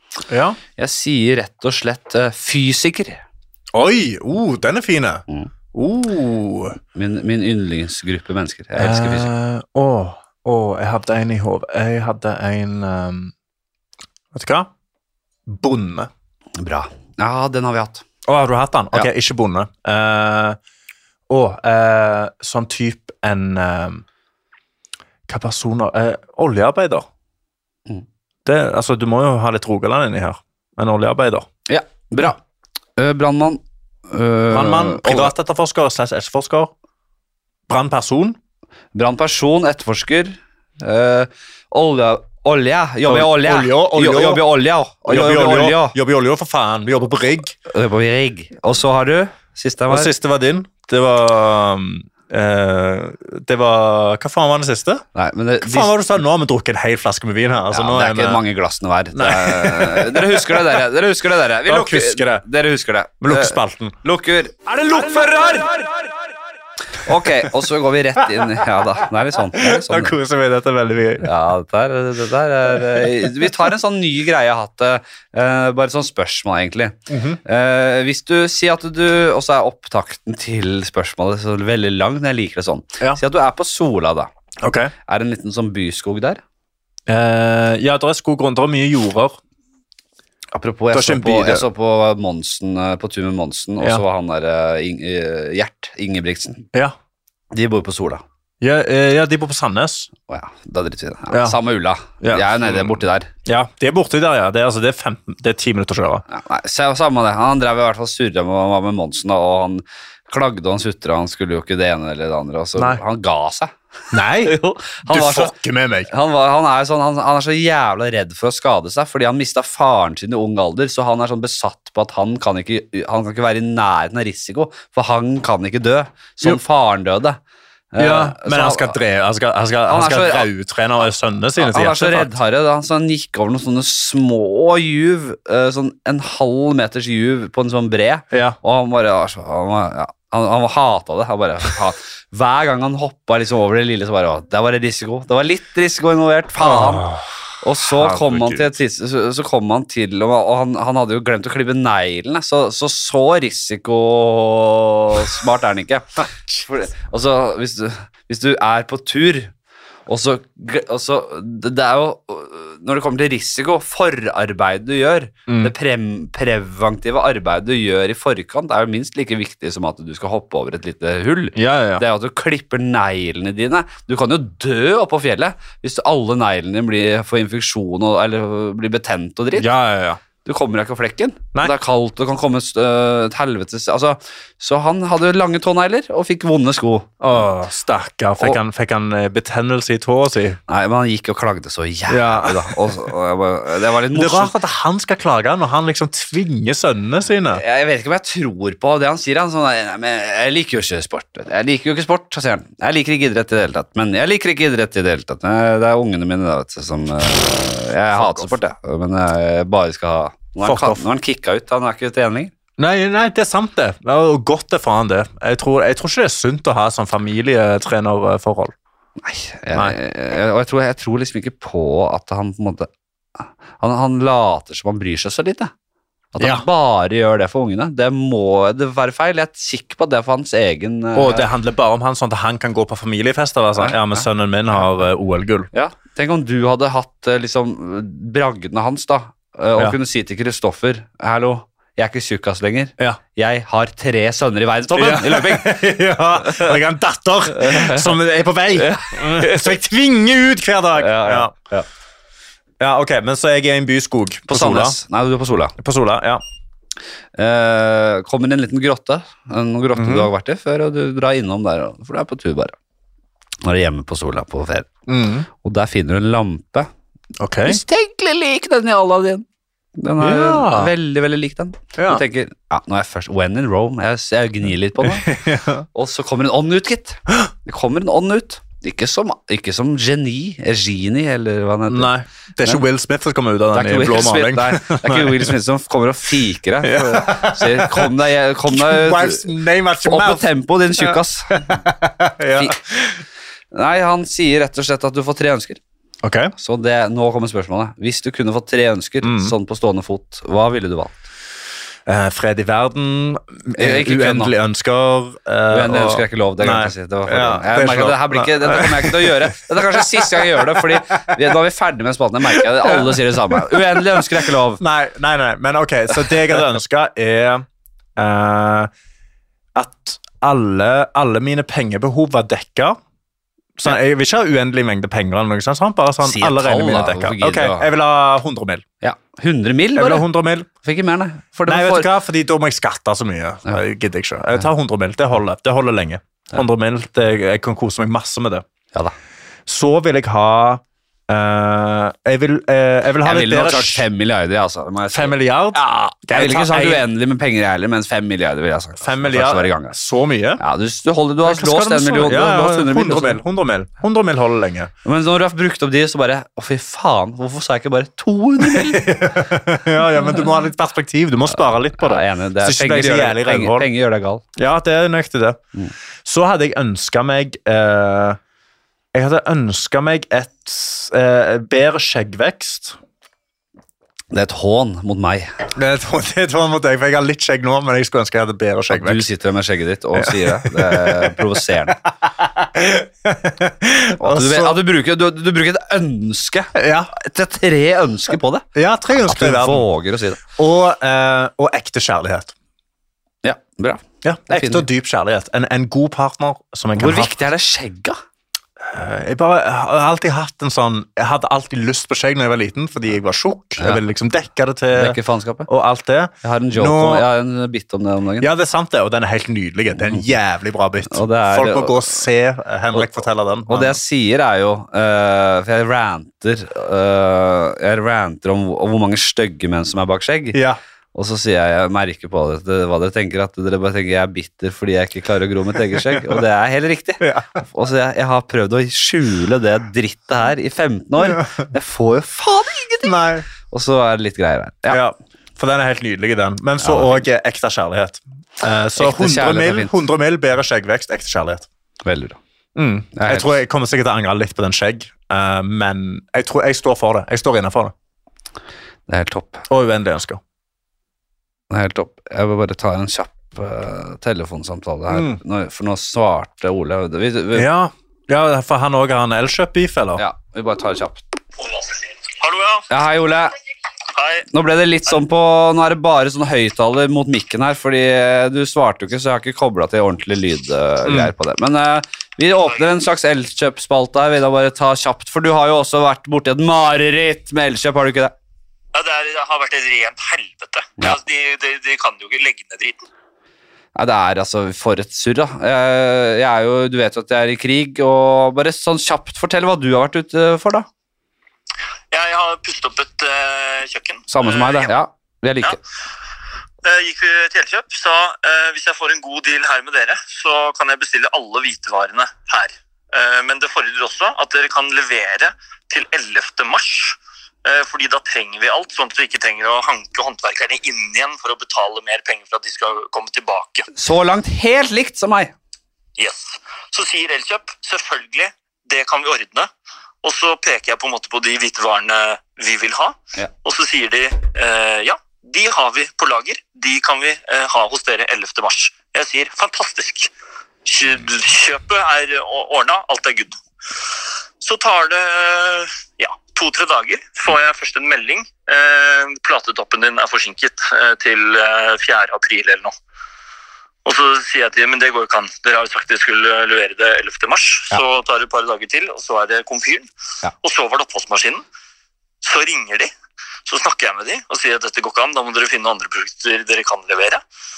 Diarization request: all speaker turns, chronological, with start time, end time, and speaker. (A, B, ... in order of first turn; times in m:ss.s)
0:00.3-0:00.6 A
0:00.8-0:03.2 B
0:03.7-0:06.8 A
0:06.9-0:09.3 B
0:08.8-0:13.3 A
0:14.3-0:14.7 A
0:15.5-0:16.1 A
0:16.6-0:18.0 B
0:18.2-0:20.6 A
0:21.3-0:24.0 A
0:25.3-0:27.0 A
0:28.4-0:31.5 A
0:31.7-0:32.4 B
0:33.0-0:35.3 B
0:34.5-0:36.7 A
0:37.7-0:38.4 A
0:38.9-0:45.9 B
0:43.0-0:44.4 A
0:45.0-0:47.5 A
0:47.7-0:50.1 B
0:49.9-0:55.0 A
0:55.1-0:55.9 B
0:55.6-0:58.4 A
0:57.7-1:06.1 B
0:59.1-1:00.6 A
1:01.6-1:02.4 A
1:03.2-1:04.0 A
1:07.0-1:10.2 B
1:09.6-1:11.3 A
1:11.2-1:24.3 B
1:17.1-1:17.4 A
1:24.6-1:24.9 A
1:25.1-1:26.4 B
1:27.1-1:29.4 A
1:30.5-1:36.7 B
1:30.9-1:31.6 A
1:37.5-1:38.2 B
1:38.6-1:40.1 A
1:40.3-1:43.3 B
1:41.3-1:41.6 A
1:42.2-1:46.2 A
1:46.3-1:55.5 B
1:54.1-1:56.1 A
1:56.1-2:07.4 B
2:07.9-2:08.9 B
2:08.0-2:12.3 A
2:09.9-2:10.5 B
2:11.6-2:27.1 B
2:18.3-2:18.6 A
2:26.6-2:27.3 A
2:27.6-2:39.5 B
2:27.8-2:28.7 A
2:40.1-2:59.7 B
2:45.5-2:45.7 A
2:51.5-2:52.0 A
2:59.6-3:00.2 A
3:00.4-3:07.1 B
3:07.2-3:10.6 A
3:10.7-3:14.5 B
3:12.1-3:13.1 A
3:14.1-3:17.6 A
3:17.5-3:32.5 B
3:28.1-3:28.6 A
3:30.6-3:31.0 A
3:32.8-3:38.7 A
3:39.2-3:42.9 B
3:43.4-3:45.7 B
3:46.3-3:51.5 B
3:46.4-3:46.6 A
3:51.1-3:55.7 A
3:53.8-3:54.2 B
3:55.7-4:05.8 B
4:04.9-4:11.5 A
4:06.4-4:06.8 B
4:07.5-4:08.2 B
4:08.7-4:09.8 B
4:11.0-4:11.8 B
4:12.8-4:15.0 A
4:14.5-4:15.7 B
4:15.8-4:16.4 A
4:17.4-4:22.7 B
4:20.0-4:20.3 A
4:23.6-4:24.9 B
4:25.1-4:25.5 A
4:25.6-4:26.9 B
4:27.4-4:27.8 A
4:27.6-4:29.4 B
4:30.0-4:35.3 B
4:30.2-4:30.9 A
4:32.0-4:32.2 A
4:35.0-4:35.8 A
4:35.9-4:42.1 B
4:41.9-4:45.5 A
4:43.7-4:49.4 B
4:46.8-4:48.1 A
4:48.7-4:53.2 A
4:50.0-4:51.8 B
4:53.7-4:55.8 B
4:56.2-4:56.5 A
4:56.6-5:01.2 B
4:59.2-4:59.5 A
5:02.0-5:11.0 A
5:03.8-5:04.5 B
5:05.7-5:14.8 B
5:12.6-5:14.2 A
5:14.8-5:17.6 A
5:18.2-5:18.9 A
5:19.7-5:23.0 A
5:23.8-5:28.8 A
5:26.2-5:27.9 B
5:29.0-5:30.2 B
5:30.0-5:30.7 A
5:30.8-5:32.1 B
5:31.7-5:38.6 A
5:39.7-5:44.0 A
5:43.2-5:50.0 B
5:45.1-5:47.0 A
5:49.0-5:50.6 A
5:50.6-5:53.4 B
5:51.4-5:54.9 A
5:55.0-5:59.1 B
5:58.6-6:03.9 A
6:02.0-6:04.4 B
6:04.6-6:05.6 A
6:06.2-6:08.4 A
6:09.1-6:13.0 A
6:14.3-6:15.7 B
6:15.7-6:19.3 A
6:18.9-6:22.0 B
6:20.1-6:21.5 A
6:22.4-6:24.8 A
6:24.2-6:28.6 B
6:26.7-6:27.1 A
6:28.7-6:29.8 A
6:29.3-6:30.4 B
6:30.6-6:32.5 A
6:33.4-6:34.8 B
6:34.2-6:37.3 A
6:37.0-6:38.2 B
6:38.8-6:47.3 A
6:44.9-6:45.7 B
6:46.4-6:48.5 B
6:48.4-6:54.0 A
6:51.1-6:52.2 B
6:52.9-7:00.6 B
7:00.5-7:00.8 A
7:01.1-7:15.0 B
7:06.0-7:06.4 A
7:07.2-7:07.6 A
7:13.0-7:13.5 A
7:14.9-7:21.7 A
7:16.8-7:17.2 B
7:19.0-7:19.9 B
7:22.0-7:22.4 B
7:22.7-7:27.9 A
7:23.1-7:23.5 B
7:29.1-7:29.6 B
7:29.7-7:30.4 A
7:31.7-7:37.7 B
7:35.1-7:35.4 A
7:37.5-7:40.2 A
7:40.2-7:41.2 B
7:41.6-7:42.9 C
7:42.9-7:43.6 B
7:44.1-7:44.4 C
7:44.5-7:58.3 B
7:51.0-7:51.3 A
7:58.9-8:03.0 C
8:03.9-8:10.9 B
8:12.1-8:14.9 C
8:14.3-8:15.8 B
8:16.8-8:33.9 C
8:33.9-8:35.5 B
8:36.2-8:39.7 C
8:40.2-8:50.3 C
8:50.8-8:53.6 C
8:54.6-9:02.9 C
9:04.0-9:10.1 C
9:10.6-9:11.6 C
9:12.4-9:13.1 C
9:13.6-9:17.4 C